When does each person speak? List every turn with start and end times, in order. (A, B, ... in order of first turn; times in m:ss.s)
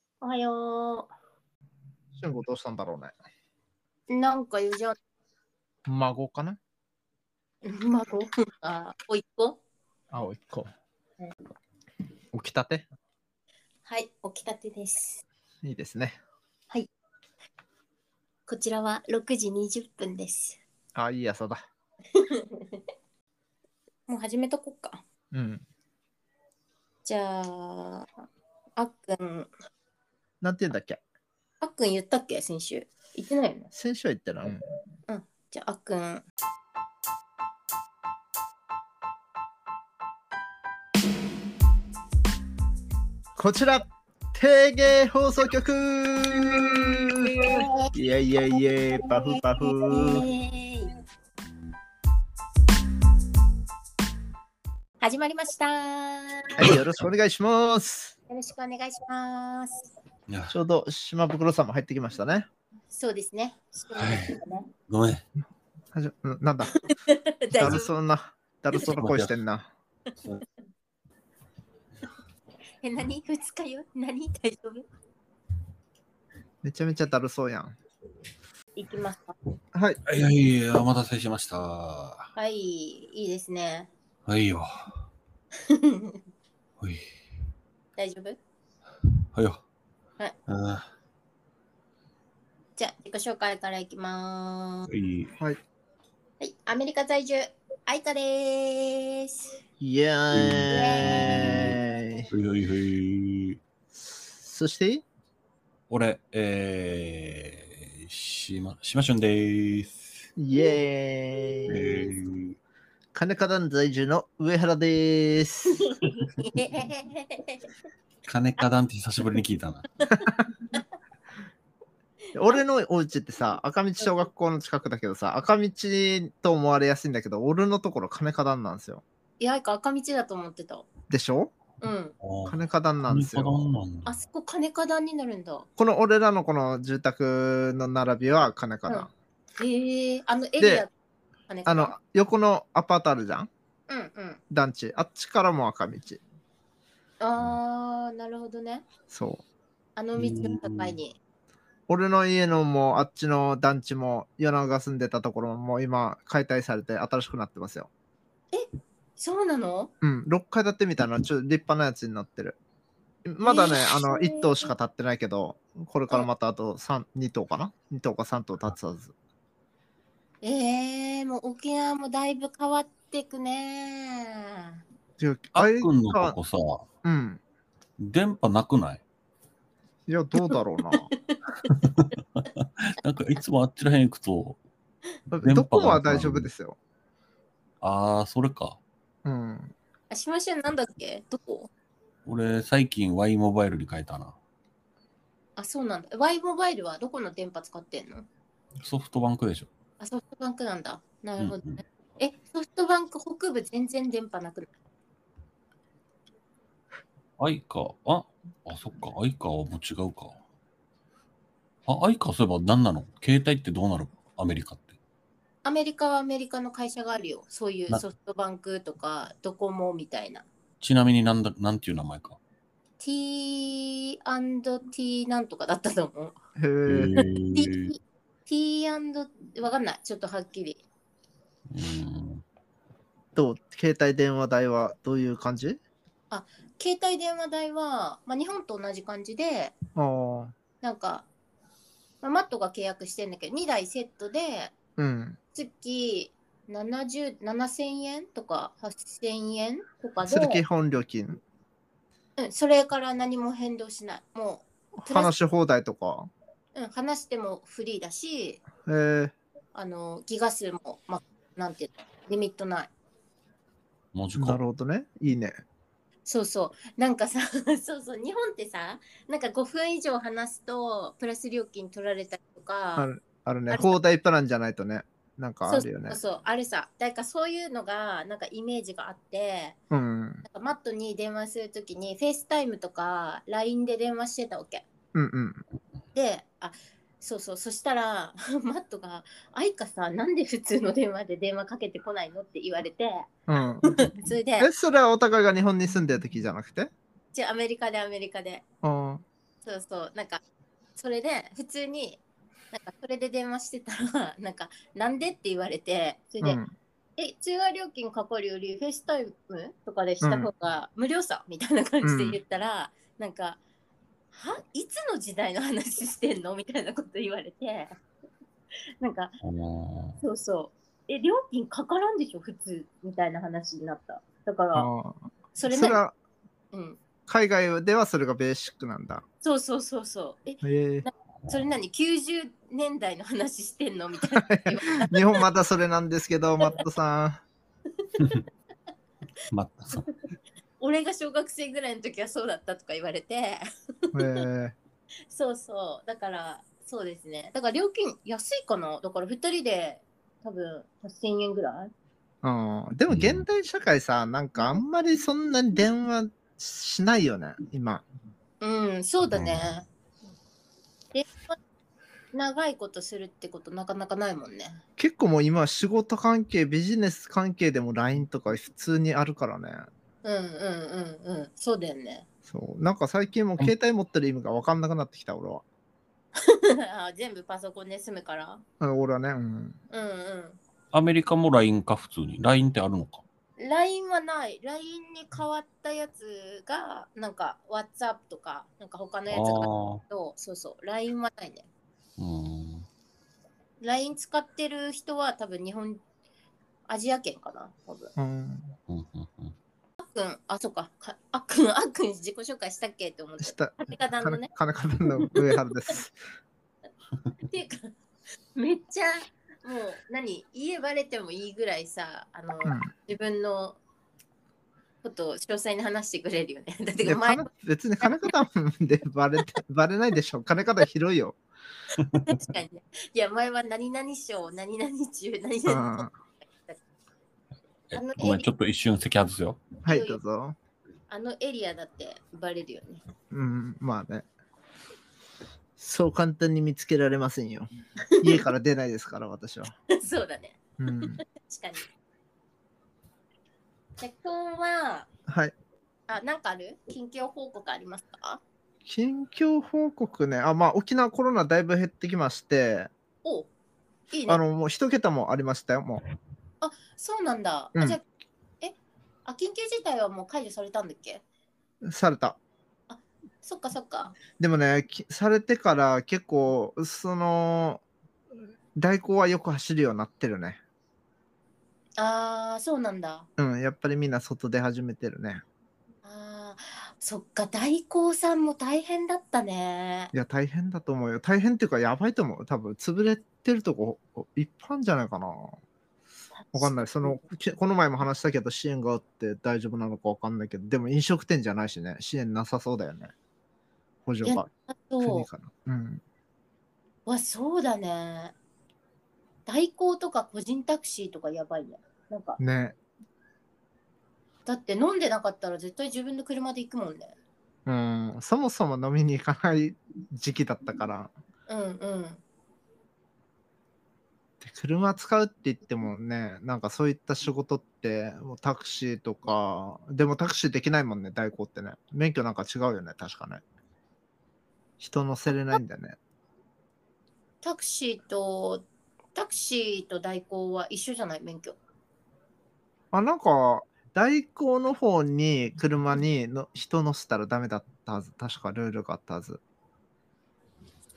0:00.2-0:01.1 A
0:02.1-0:03.1 B
0:04.1-0:05.0 A
0:05.8-0:06.6 B
0:07.6-0:09.6 A
0:10.1-0:10.7 B
0:12.3-0:12.8 B
0:13.8-0:15.2 A
0:15.6-0:16.2 B
0:18.5-0:20.6 A
0:20.9-0:21.6 B
0:22.1-0:22.8 A
0:24.1-0:25.0 A
0:25.3-0:25.6 B
0:27.0-0:28.1 A
0:28.8-0:29.5 A
0:30.4-0:31.0 B
0:31.6-0:33.7 A
0:33.7-0:34.6 B
0:35.1-0:36.2 A
0:43.4-0:50.3 B
0:47.2-0:47.9 A
0:48.5-0:50.9 A
0:55.0-0:56.6 A
0:56.6-0:58.1 B
0:58.3-0:59.9 A
1:00.3-1:00.6 C
1:00.5-1:02.5 B
1:02.9-1:04.7 A
1:03.9-1:05.2 C
1:05.9-1:06.7 B
1:06.8-1:07.9 A
1:07.6-1:09.7 B
1:08.8-1:09.4 C
1:12.8-1:14.8 A
1:16.6-1:17.7 B
1:18.8-1:19.4 A
1:19.7-1:20.0 B
1:20.0-1:22.3 C
1:22.4-1:23.9 A
1:24.2-1:25.0 C
1:25.6-1:26.2 A
1:26.8-1:27.1 C
1:28.0-1:28.4 A
1:29.3-1:29.6 C
1:30.5-1:30.9 C
1:32.8-1:34.9 A
1:34.9-1:35.3 C
1:36.4-1:39.6 A
1:39.8-1:42.3 B
1:40.3-1:41.8 C
1:40.7-1:41.4 A
1:42.3-1:43.6 C
1:44.0-1:45.0 B
1:45.9-1:50.3 C
1:50.4-1:52.1 B
1:51.7-1:52.6 C
1:53.1-1:55.8 B
1:55.7-1:57.7 A
1:58.3-1:59.9 C
2:00.0-2:00.8 A
2:02.3-2:09.0 B
2:09.4-2:10.8 A
2:11.1-2:11.5 B
2:11.8-2:12.1 A
2:12.2-2:14.2 C
2:12.5-2:13.6 B
2:14.0-2:15.7 A
2:15.8-2:19.1 B
2:18.9-2:20.9 A
2:20.6-2:20.8 B
2:21.5-2:21.9 A
2:21.6-2:23.5 B
2:23.9-2:24.4 A
2:24.5-2:26.2 B
2:27.2-2:28.8 A
2:29.1-2:29.4 B
2:30.0-2:31.2 A
2:30.2-2:31.0 C
2:31.9-2:37.9 B
2:38.5-2:39.9 A
2:40.0-2:42.6 B
2:43.2-2:49.1 B
2:43.4-2:44.7 A
2:50.4-2:54.8 A
2:55.2-2:56.4 B
2:55.5-2:56.9 C
2:57.0-2:57.4 B
2:58.0-2:59.0 C
3:00.1-3:01.1 B
3:00.9-3:01.7 A
3:01.7-3:04.6 C
3:05.3-3:06.5 C
3:05.3-3:06.8 B
3:07.8-3:08.8 C
3:09.2-3:09.7 B
3:10.1-3:11.7 A
3:12.2-3:14.4 C
3:15.6-3:18.3 A
3:18.8-3:19.7 C
3:20.0-3:21.6 A
3:21.4-3:21.8 C
3:22.2-3:24.7 A
3:27.4-3:30.4 C
3:31.9-3:35.0 C
3:35.6-3:40.4 A
3:40.8-3:42.4 C
3:43.0-3:46.4 A
3:46.6-3:47.1 B
3:46.8-3:47.9 C
3:47.5-3:50.8 A
3:51.7-3:52.4 C
3:53.4-3:55.8 B
3:56.3-3:59.7 A
4:00.0-4:00.5 B
4:00.8-4:01.3 A
4:02.2-4:04.7 A
4:05.0-4:05.4 B
4:05.5-4:10.6 A
4:10.2-4:11.4 B
4:12.4-4:15.3 A
4:15.0-4:16.3 B
4:16.7-4:18.6 A
4:18.8-4:19.3 B
4:19.7-4:22.9 A
4:24.1-4:24.6 C
4:24.4-4:25.6 B
4:26.2-4:33.1 A
4:33.0-4:36.2 B
4:33.7-4:34.0 A
4:35.6-4:39.8 A
4:39.9-4:40.4 B
4:40.4-4:44.8 A
4:45.1-4:45.6 B
4:46.1-4:53.3 A
4:53.5-4:53.9 B
4:53.8-4:54.7 A
4:54.6-4:56.9 B
4:57.3-4:58.6 A
4:58.8-4:59.2 B
4:59.6-5:00.4 A
5:01.0-5:02.2 A
5:02.7-5:06.6 A
5:06.4-5:06.7 B
5:07.2-5:13.6 A
5:10.2-5:10.5 B
5:12.0-5:12.4 B
5:14.3-5:18.0 A
5:19.0-5:19.4 A
5:19.4-5:20.2 C
5:20.2-5:24.9 A
5:24.8-5:26.1 B
5:25.5-5:26.0 A
5:26.7-5:27.0 A
5:27.3-5:29.2 B
5:29.4-5:35.4 A
5:30.6-5:31.0 B
5:34.4-5:37.4 B
5:39.5-5:40.1 C
5:40.8-5:44.4 A
5:44.1-5:44.8 B
5:45.3-5:51.9 A
5:52.4-5:58.0 B
5:53.1-5:53.4 C
5:58.6-5:59.8 A
5:59.3-5:59.6 C
6:01.1-6:01.6 A
6:02.3-6:04.8 A
6:05.0-6:09.8 B
6:10.2-6:12.2 A
6:12.4-6:15.6 B
6:16.4-6:18.6 A
6:18.8-6:19.8 B
6:19.9-6:20.6 A
6:20.9-6:23.2 C
6:23.6-6:31.7 A
6:29.3-6:30.0 C
6:32.2-6:32.9 C
6:33.8-6:36.0 A
6:36.9-6:38.1 A
6:38.2-6:38.7 B
6:38.9-6:39.5 C
6:40.0-6:44.5 A
6:43.4-6:46.2 B
6:45.2-6:45.6 A
6:47.4-6:47.9 A
6:48.5-6:53.8 A
6:52.6-6:52.9 B
6:55.0-6:57.5 A
6:57.0-7:01.4 B
6:58.0-6:58.3 A
7:02.0-7:02.2 C
7:02.2-7:06.8 A
7:05.7-7:06.1 B
7:07.9-7:09.7 C
7:07.9-7:08.4 A
7:09.8-7:10.6 B
7:09.9-7:10.2 A
7:11.1-7:13.0 A
7:13.3-7:14.2 B
7:15.8-7:17.7 B
7:18.1-7:18.5 A
7:18.2-7:19.7 B
7:19.9-7:21.9 A
7:20.8-7:21.2 B
7:24.0-7:25.1 A
7:25.3-7:25.5 B
7:26.1-7:28.4 A
7:28.8-7:32.9 B
7:33.2-7:33.5 A
7:34.1-7:34.4 A
7:34.3-7:36.0 B
7:36.6-7:38.0 A
7:39.2-7:41.2 A
7:41.8-7:42.4 B
7:42.9-7:44.2 A
7:44.4-7:47.8 B
7:48.8-7:50.6 B
7:52.0-7:53.3 A
7:53.4-7:55.4 B
7:56.0-8:00.1 A
8:00.1-8:05.6 B
8:06.4-8:07.2 A
8:06.5-8:13.1 B
8:14.0-8:14.5 B
8:14.2-8:15.2 A
8:15.0-8:16.0 B
8:17.0-8:18.3 A
8:19.4-8:22.4 A
8:22.4-8:22.8 B
8:24.4-8:27.1 A
8:27.7-8:31.1 B
8:31.5-8:32.2 A
8:34.4-8:43.4 B
8:44.8-8:46.0 B
8:47.4-8:51.6 A
8:52.9-8:59.4 B